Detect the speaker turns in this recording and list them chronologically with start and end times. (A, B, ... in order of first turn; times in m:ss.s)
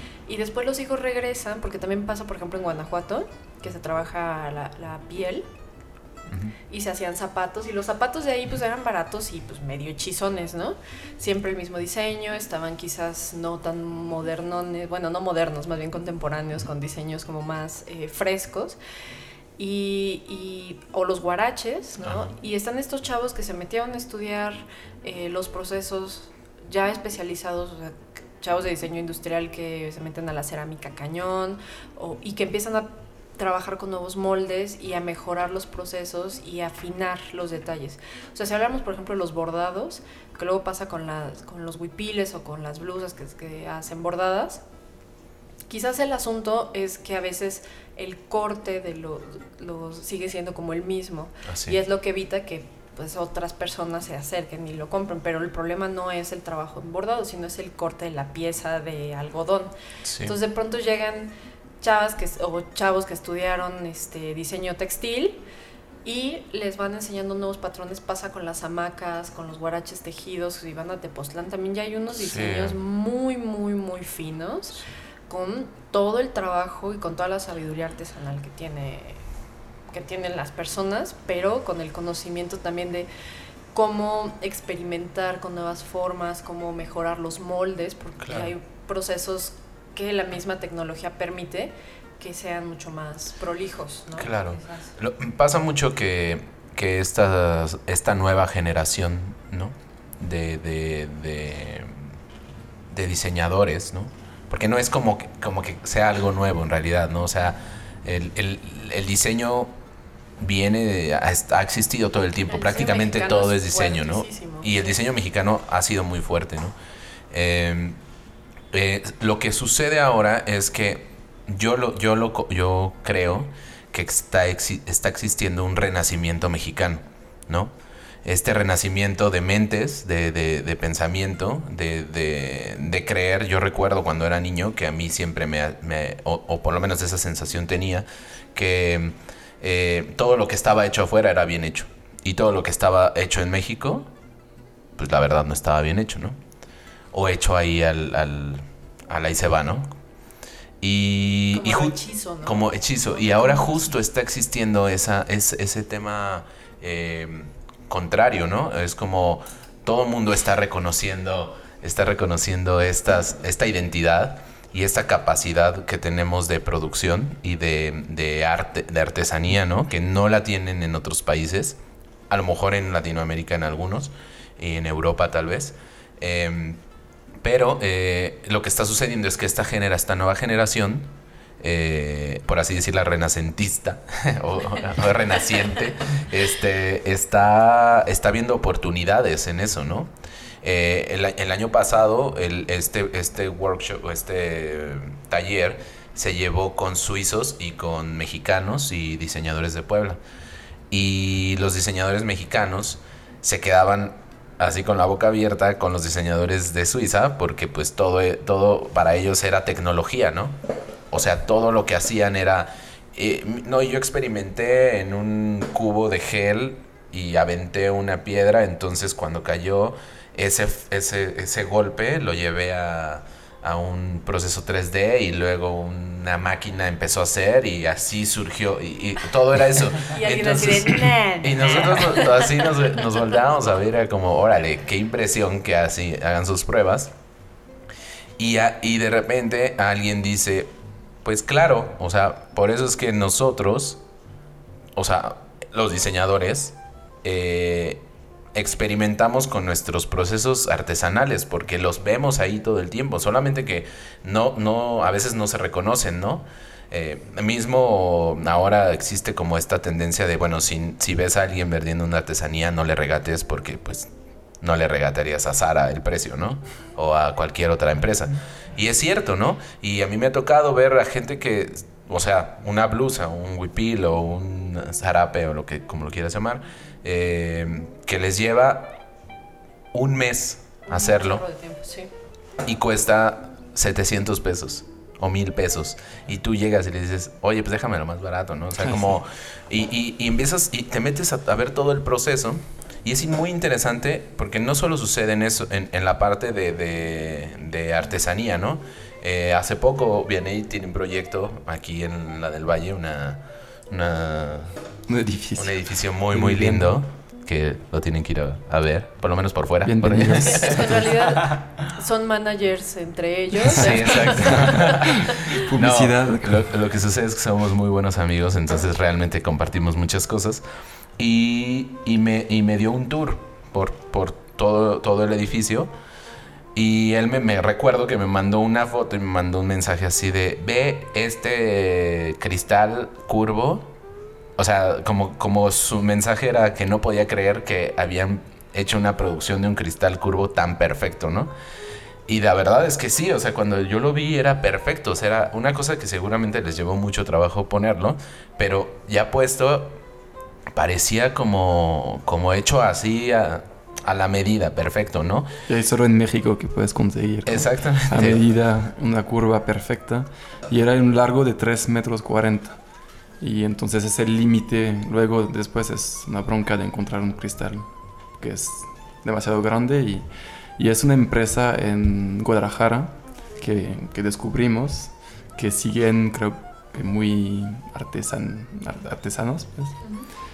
0:00.3-0:05.5 A
0:06.7-0:18.8 A
0:19.6-0:44.6 A
0:22.0-0:22.3 B
0:45.7-1:05.4 A
0:51.5-0:51.8 B
1:00.0-1:00.3 B
1:06.0-1:19.2 A
1:12.2-1:12.8 B
1:19.9-1:23.1 A
1:23.7-1:34.9 A
1:28.2-1:28.5 B
1:34.2-1:42.0 B
1:42.9-1:49.7 B
1:50.4-1:56.8 B
1:52.5-1:55.0 A
1:57.3-1:58.0 B
1:58.7-2:07.7 B
2:08.2-2:24.1 B
2:25.0-2:26.4 B
2:27.1-2:29.9 B
2:30.8-2:51.8 B
2:31.5-2:32.6 A
2:33.1-2:33.9 A
2:52.3-2:56.8 B
2:57.4-3:10.1 B
3:10.6-3:20.2 B
3:20.9-3:30.6 B
3:31.1-3:57.1 B
3:50.1-3:53.1 A
3:58.4-4:00.7 B
4:01.2-4:04.0 B
4:05.0-4:08.0 B
4:08.5-4:39.0 B
4:39.9-4:41.4 B
4:40.9-4:42.1 A
4:42.6-5:04.8 B
5:05.1-5:07.0 C
5:05.6-5:11.0 B
5:09.8-5:11.0 C
5:10.4-5:15.4 A
5:13.7-5:20.6 B
5:14.4-5:16.7 C
5:21.2-5:25.9 B
5:26.8-5:33.9 B
5:34.6-5:41.5 B
5:42.3-5:50.0 B
5:50.7-5:55.5 B
5:55.7-6:02.8 C
5:57.5-5:58.4 B
6:03.4-6:20.0 C
6:20.0-6:20.3 A